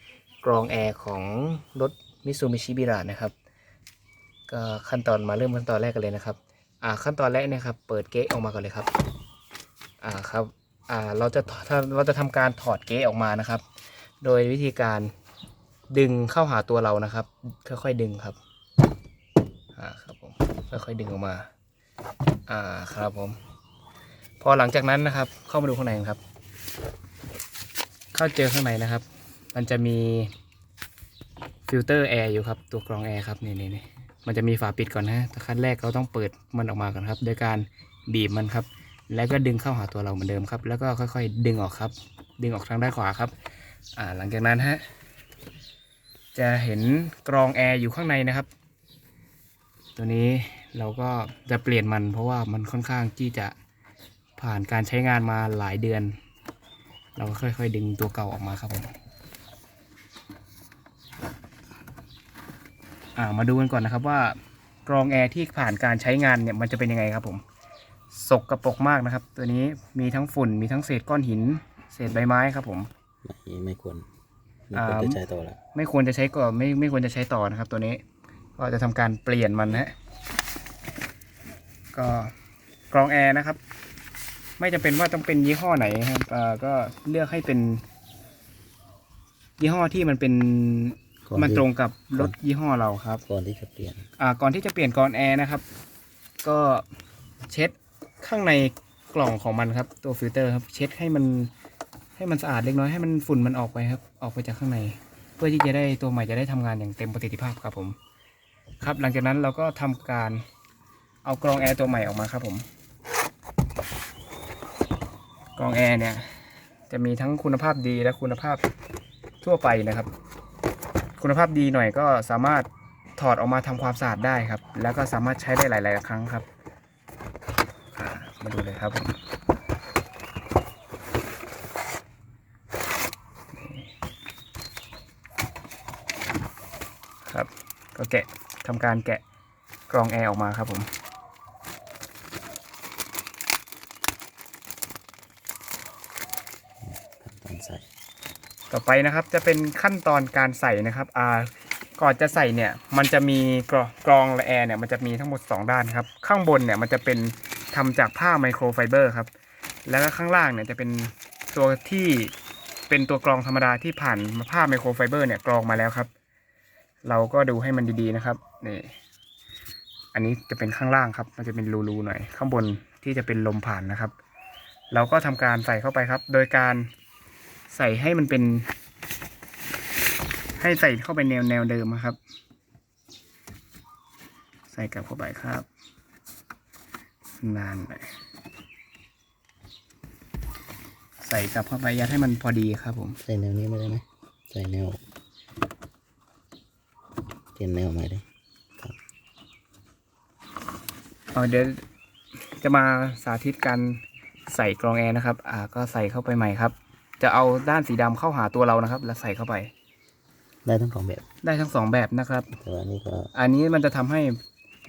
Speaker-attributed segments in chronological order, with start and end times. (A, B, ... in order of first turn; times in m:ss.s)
0:00.4-0:03.3 A
0:04.5-0:08.9 A
0:10.0-0:13.6 A
0:14.2-0:15.1 A
0:15.9-0:18.4 A
0:19.8-0:21.5 A
0:22.5-0:23.4 A
0:24.4-0:26.2 A
0:28.1-0:30.3 A
0:31.7-0:43.3 A
0:44.0-0:44.8 A
0:46.3-0:48.5 A
0:50.0-0:53.5 A
0:54.4-0:56.1 A
0:57.2-0:58.9 A
1:03.2-1:04.3 A
1:04.8-1:07.4 A
1:08.1-1:12.9 A
1:13.2-1:14.0 B
1:14.7-1:15.6 B
1:14.7-1:15.2 A
1:15.7-1:18.0 A
1:18.6-1:19.9 A
1:21.9-1:22.3 A
1:22.9-1:23.6 A
1:24.6-1:27.8 A
1:29.6-1:33.2 A
1:31.3-1:32.3 B
1:33.2-1:34.1 B
1:34.2-1:35.6 A
1:36.4-1:36.8 A
1:37.5-1:41.5 A
1:42.2-1:48.0 A
1:48.8-1:50.4 A
1:51.2-1:52.6 A
1:55.6-1:56.3 A
1:56.9-1:58.6 A
1:59.4-2:00.1 A
2:01.2-2:06.4 A
2:07.9-2:09.2 A
2:13.5-2:13.9 A
2:17.2-2:19.2 A
2:19.9-2:20.9 A
2:26.8-2:27.8 B
2:28.7-2:39.3 A
2:39.8-2:42.3 A
2:42.9-2:46.1 A
2:47.0-2:48.9 A
2:50.1-2:54.1 A
2:54.9-2:56.9 A
2:57.7-2:58.7 A
3:00.6-3:02.2 A
3:04.7-3:05.7 A
3:07.4-3:08.1 A
3:11.2-3:13.2 A
3:13.2-3:15.0 B
3:17.6-3:18.2 B
3:21.3-3:21.8 A
3:22.5-3:29.7 A
3:30.6-3:31.2 B
3:31.4-3:32.5 A
3:32.6-3:33.3 B
3:33.3-3:34.4 A